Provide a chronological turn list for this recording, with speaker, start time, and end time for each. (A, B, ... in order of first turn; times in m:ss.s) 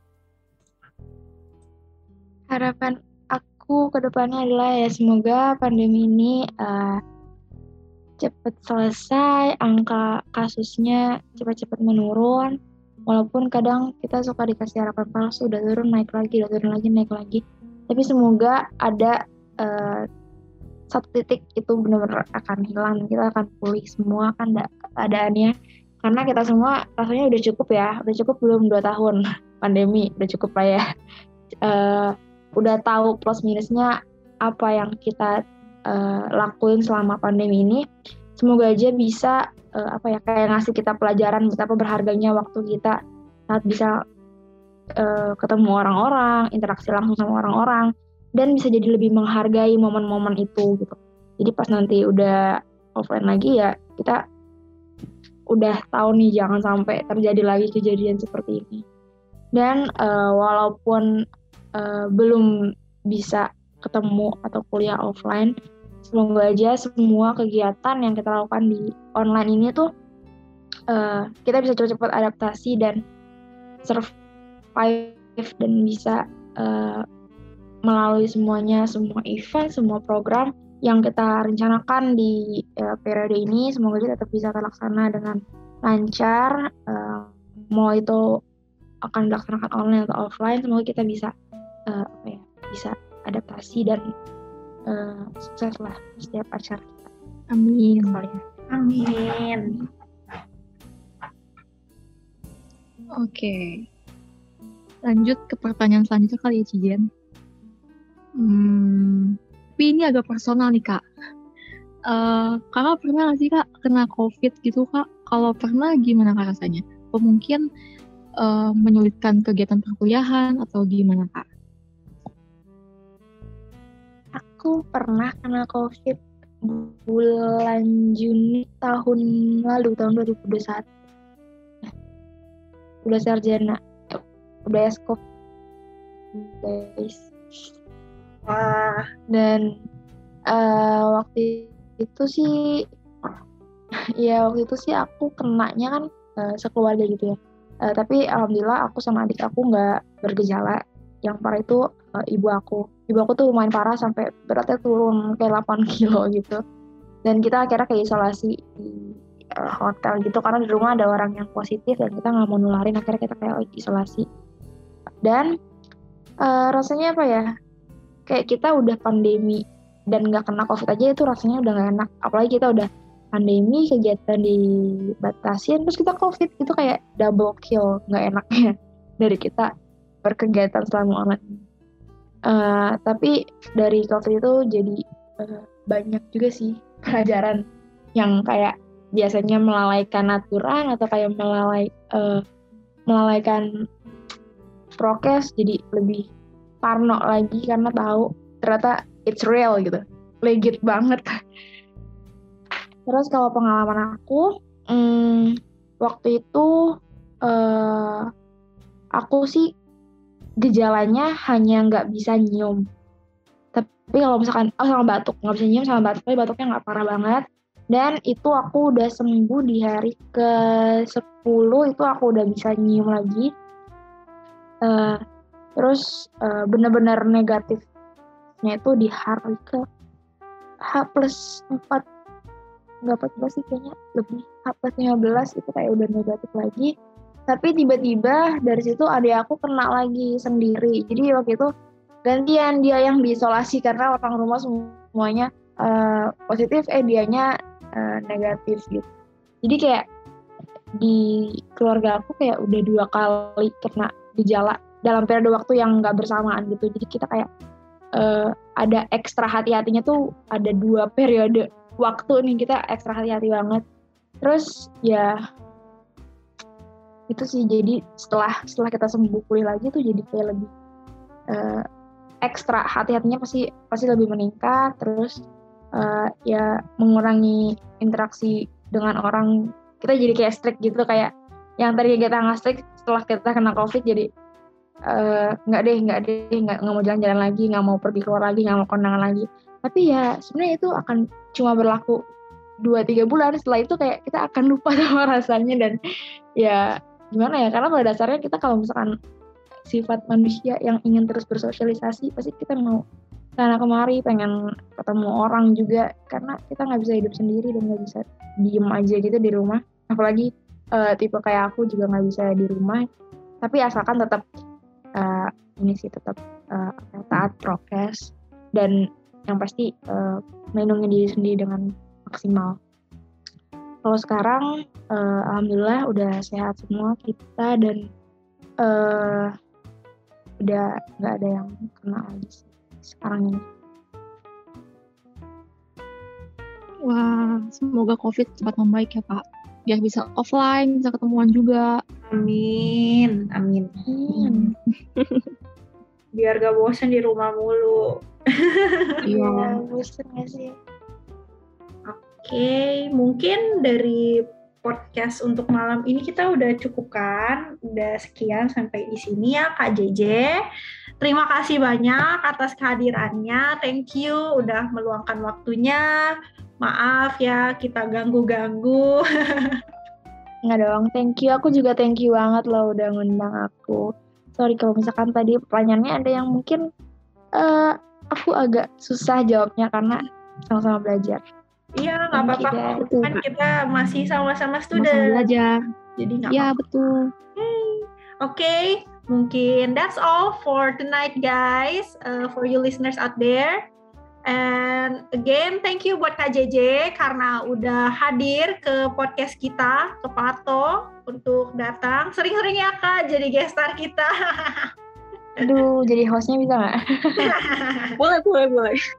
0:02.5-0:07.0 A
0:08.2-0:12.6 A
0:13.1-0:20.0 A
0:20.9-0:30.8 A
0:31.6-0:33.9 A
0:34.4-0:35.4 A
0:35.9-0:37.8 A
0:38.4-0:43.0 A
0:43.5-0:43.9 A
0:45.0-0:52.4 A
0:53.0-0:54.2 A
0:55.5-0:58.8 A
0:59.6-1:01.1 A
1:01.8-1:02.5 A
1:03.1-1:05.5 A
1:06.0-1:09.9 A
1:10.9-1:13.0 A
1:13.8-1:14.1 A
1:14.8-1:17.0 A
1:17.9-1:28.2 A
1:29.1-1:31.3 A
1:31.9-1:34.0 A
1:34.9-1:37.1 A
1:37.5-1:38.2 B
1:38.0-1:38.4 A
1:38.7-1:39.8 C
1:43.2-1:43.8 B
1:45.0-1:47.1 B
1:48.4-1:51.0 B
1:52.1-1:57.6 B
1:58.4-2:01.5 B
2:04.3-2:10.9 A
2:13.0-2:15.2 A
2:16.3-2:17.3 A
2:18.5-2:19.0 C
2:19.3-2:19.7 A
2:20.5-2:22.5 A
2:24.2-2:36.6 A
2:37.2-2:44.3 A
2:45.2-2:45.5 A
2:46.4-2:47.5 A
2:48.3-2:54.6 A
2:55.2-2:59.7 A
3:00.2-3:01.6 A
3:02.5-3:07.6 A
3:08.2-3:12.4 A
3:13.1-3:13.6 A
3:15.0-3:16.3 A
3:16.8-3:21.3 A
3:23.1-3:26.7 A
3:27.5-3:28.3 A
3:29.2-3:29.7 A
3:30.6-3:32.8 A
3:33.7-3:43.5 A
3:44.8-3:45.2 A
3:45.8-3:47.8 A
3:48.6-3:49.8 A
3:50.9-3:52.0 A
3:53.1-3:56.9 A
3:57.5-4:01.7 A
4:02.3-4:09.1 A
4:09.6-4:10.0 A
4:11.0-4:17.5 A
4:18.2-4:23.8 A
4:24.4-4:25.3 A
4:27.3-4:30.7 A
4:31.5-4:31.8 A
4:32.4-4:35.4 A
4:36.0-4:39.5 A
4:40.0-4:44.3 A
4:45.1-4:52.2 A
4:52.8-4:56.0 A
4:56.6-4:59.1 A
4:59.9-5:03.0 A
5:03.6-5:13.0 A
5:13.6-5:14.4 A
5:15.2-5:19.0 A
5:19.5-5:22.8 A
5:24.0-5:28.0 A
5:28.8-5:29.5 A
5:30.6-5:33.6 A
5:37.1-5:41.9 B
5:42.3-5:43.9 C
5:44.1-5:44.7 A
5:44.3-5:45.5 B
5:46.4-5:48.0 C
5:48.6-5:49.1 C
5:49.3-5:49.8 B
5:49.3-5:50.8 A
5:52.1-5:54.3 C
5:54.8-6:00.6 C
6:01.2-6:06.0 C
6:06.8-6:09.2 C
6:10.7-6:14.0 A
6:14.6-6:16.8 A
6:17.6-6:21.4 A
6:22.0-6:25.5 C
6:22.4-6:23.0 A
6:23.0-6:23.4 B
6:25.0-6:25.7 B
6:26.2-6:26.8 C
6:26.5-6:27.1 B
6:27.6-6:33.8 C
6:34.5-6:44.9 C
6:45.6-6:47.5 A
6:47.4-6:48.1 C
6:48.2-6:49.0 B